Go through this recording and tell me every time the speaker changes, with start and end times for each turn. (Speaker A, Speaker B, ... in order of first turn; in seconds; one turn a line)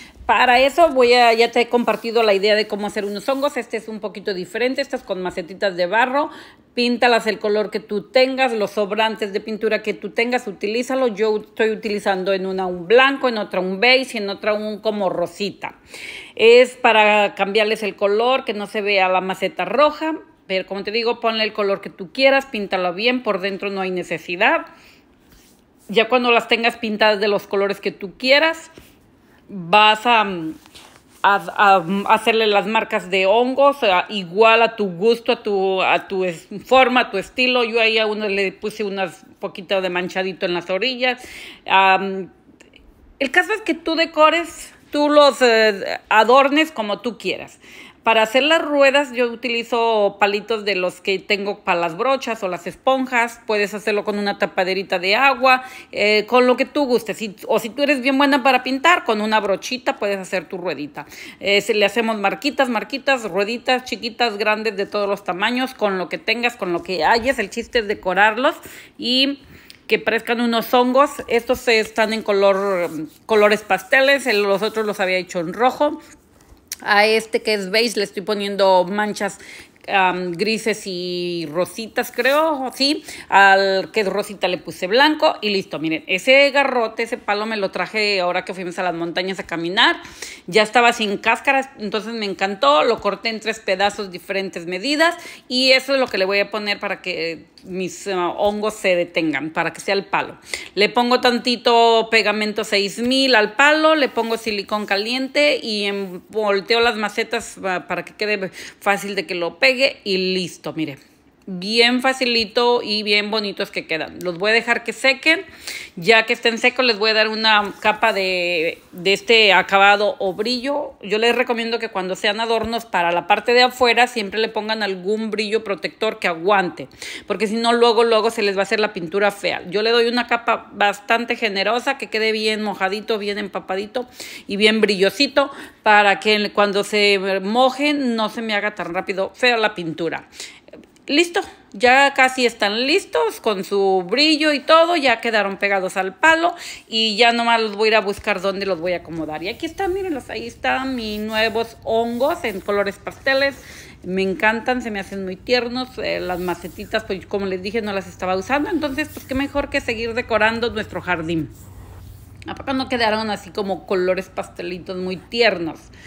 Speaker A: 0.3-15.8
Speaker A: 16.4-24.6
Speaker A: 25.9-28.7
Speaker A: 29.5-30.6
Speaker A: 31.2-42.3
Speaker A: 43.2-76.0
Speaker A: 76.8-115.4
Speaker A: 116.0-140.3
Speaker A: 141.1-161.5
Speaker A: 162.5-165.9